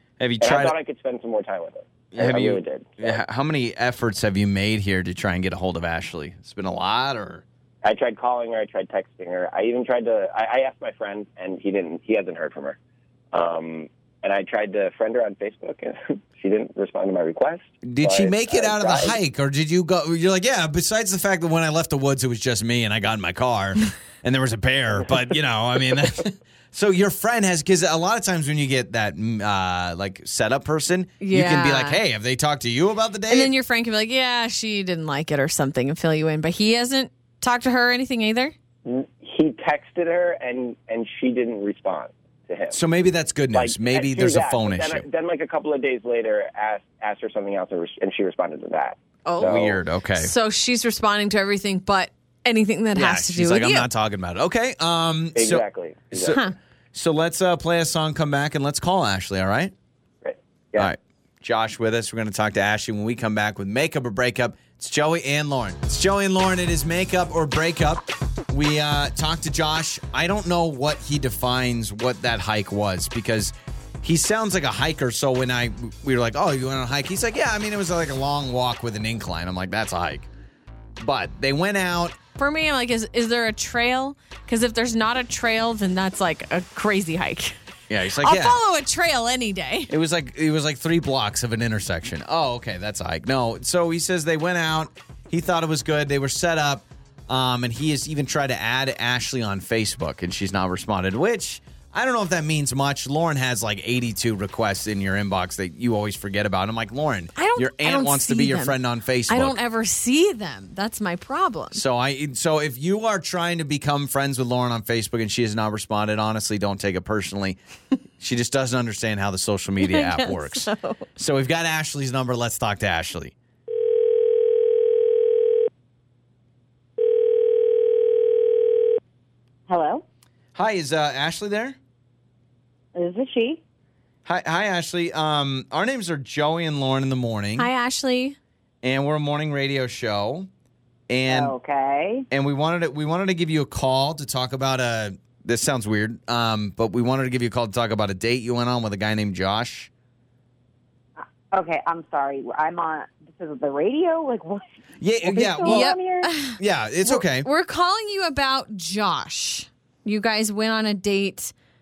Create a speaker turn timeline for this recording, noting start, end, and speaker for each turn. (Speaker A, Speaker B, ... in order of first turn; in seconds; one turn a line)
Speaker A: 0.2-0.8
Speaker B: 0.4-3.2
Speaker A: 2.1-7.4
Speaker B: 7.8-12.8
Speaker B: 13.3-19.1
Speaker A: 17.8-33.5
Speaker C: 31.2-32.0
Speaker C: 33.3-38.5
Speaker B: 38.8-42.8
Speaker A: 42.7-45.0
Speaker B: 43.5-49.8
Speaker C: 49.2-49.6
Speaker A: 49.4-50.3
Speaker C: 50.2-53.9
Speaker A: 52.9-59.7
Speaker B: 55.4-56.4
Speaker B: 60.2-60.9
Speaker A: 60.8-80.3
Speaker A: 81.0-82.2
Speaker C: 82.3-87.5
Speaker A: 87.9-88.6
Speaker C: 88.1-89.9
Speaker A: 89.9-109.6
Speaker C: 107.3-108.8
Speaker C: 109.3-111.8
Speaker A: 111.7-117.6
Speaker A: 118.2-123.3
Speaker C: 119.8-121.1
Speaker D: 129.7-130.0
Speaker A: 130.5-131.8
Speaker D: 132.9-133.6
Speaker A: 134.2-137.7
Speaker C: 137.6-138.4
Speaker A: 138.8-140.5
Speaker A: 141.1-141.5
Speaker D: 141.3-142.3
Speaker A: 142.3-149.9
Speaker D: 151.2-154.6
Speaker A: 155.0-155.9
Speaker D: 155.2-156.3
Speaker C: 155.6-161.5
Speaker A: 156.6-157.5